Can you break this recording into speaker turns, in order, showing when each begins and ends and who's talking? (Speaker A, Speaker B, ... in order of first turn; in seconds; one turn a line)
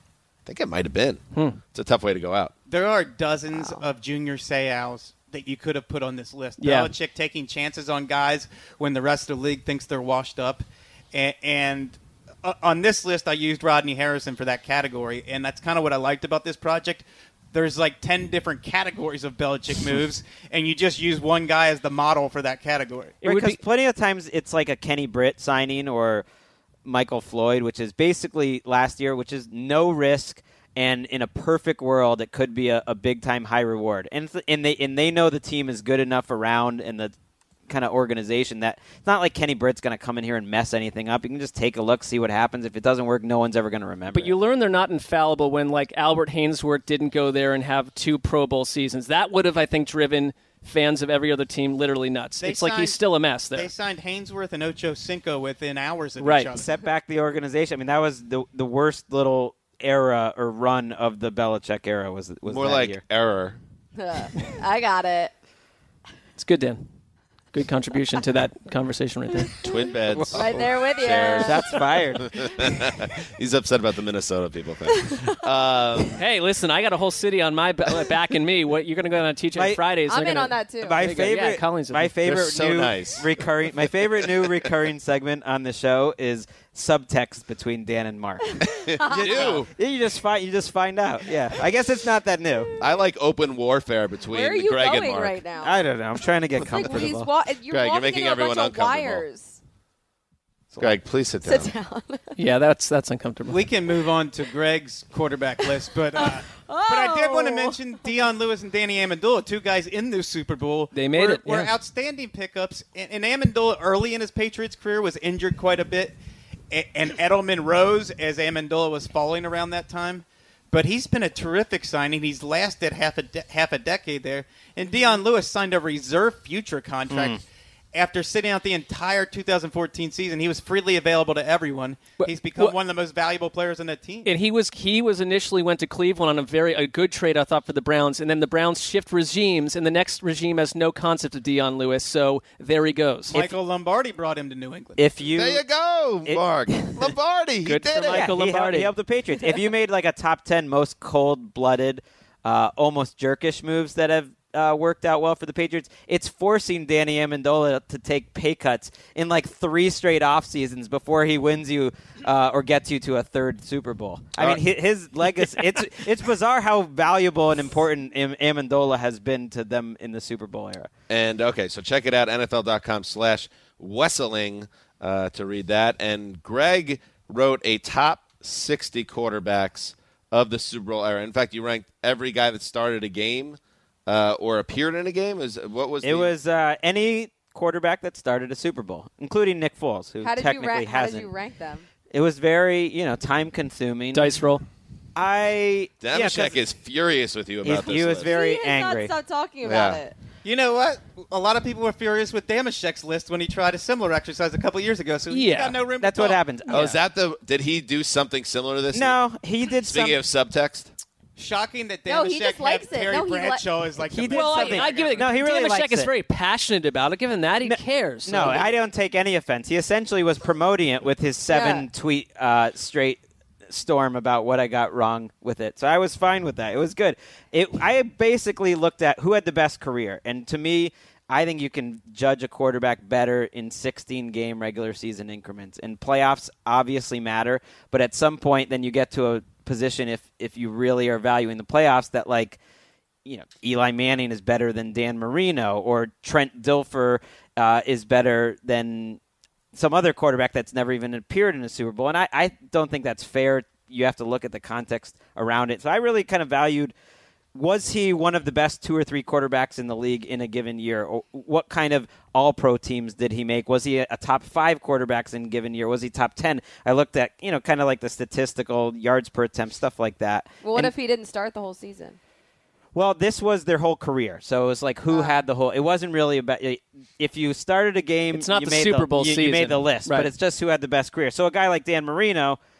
Speaker A: 0.5-1.2
Speaker B: 1.3-1.6
Speaker A: 1.7-2.5
Speaker C: 2.7-23.2
Speaker D: 3.5-3.8
Speaker B: 6.6-6.9
Speaker B: 23.2-23.6
Speaker E: 23.2-26.2
Speaker E: 26.8-37.1
Speaker E: 37.7-44.3
Speaker B: 44.1-53.7
Speaker C: 52.4-53.0
Speaker C: 53.5-56.7
Speaker B: 56.2-56.5
Speaker E: 56.5-63.0
Speaker A: 62.5-63.6
Speaker D: 64.0-65.3
Speaker B: 66.4-66.9
Speaker B: 67.5-69.5
Speaker A: 69.6-71.6
Speaker E: 70.1-70.5
Speaker D: 70.3-71.6
Speaker E: 71.3-72.7
Speaker A: 72.2-76.2
Speaker B: 76.1-82.2
Speaker E: 79.5-79.8
Speaker D: 80.0-81.1
Speaker E: 80.8-92.7
Speaker A: 82.2-83.3
Speaker A: 88.6-89.7
Speaker D: 88.9-89.6
Speaker A: 92.8-95.4
Speaker D: 94.3-95.8
Speaker E: 95.6-97.3
Speaker D: 96.7-99.6
Speaker A: 97.7-99.2
Speaker E: 100.7-101.0
Speaker A: 100.8-101.7
Speaker D: 101.4-102.3
Speaker B: 102.4-103.7
Speaker C: 103.5-116.2
Speaker D: 106.2-108.0
Speaker B: 110.9-111.7
Speaker C: 116.7-127.4
Speaker E: 127.1-127.4
Speaker C: 127.9-134.3
Speaker B: 132.2-132.8
Speaker B: 134.2-143.5
Speaker C: 143.3-145.0
Speaker E: 145.0-145.6
Speaker A: 145.3-148.3
Speaker E: 146.2-147.1
Speaker B: 147.6-148.9
Speaker E: 148.0-170.9
Speaker A: 171.1-186.3
Speaker E: 186.0-191.3
Speaker D: 190.2-191.8
Speaker E: 192.1-194.3
Speaker B: 194.1-194.6
Speaker E: 195.2-196.6
Speaker A: 196.0-198.4
Speaker E: 197.6-199.1
Speaker D: 198.2-200.2
Speaker A: 199.6-200.0
Speaker C: 200.4-206.4
Speaker B: 205.3-205.8
Speaker E: 206.0-207.0
Speaker A: 206.7-209.2
Speaker E: 208.9-210.2
Speaker A: 209.8-210.9
Speaker C: 211.4-215.3
Speaker D: 212.1-213.7
Speaker E: 214.1-216.1
Speaker B: 214.2-218.7
Speaker E: 217.6-242.6
Speaker D: 221.5-221.8
Speaker E: 243.2-249.2
Speaker E: 249.7-256.9
Speaker E: 257.5-270.9
Speaker D: 270.6-272.2
Speaker E: 272.9-282.6
Speaker D: 275.1-275.4
Speaker B: 278.3-280.3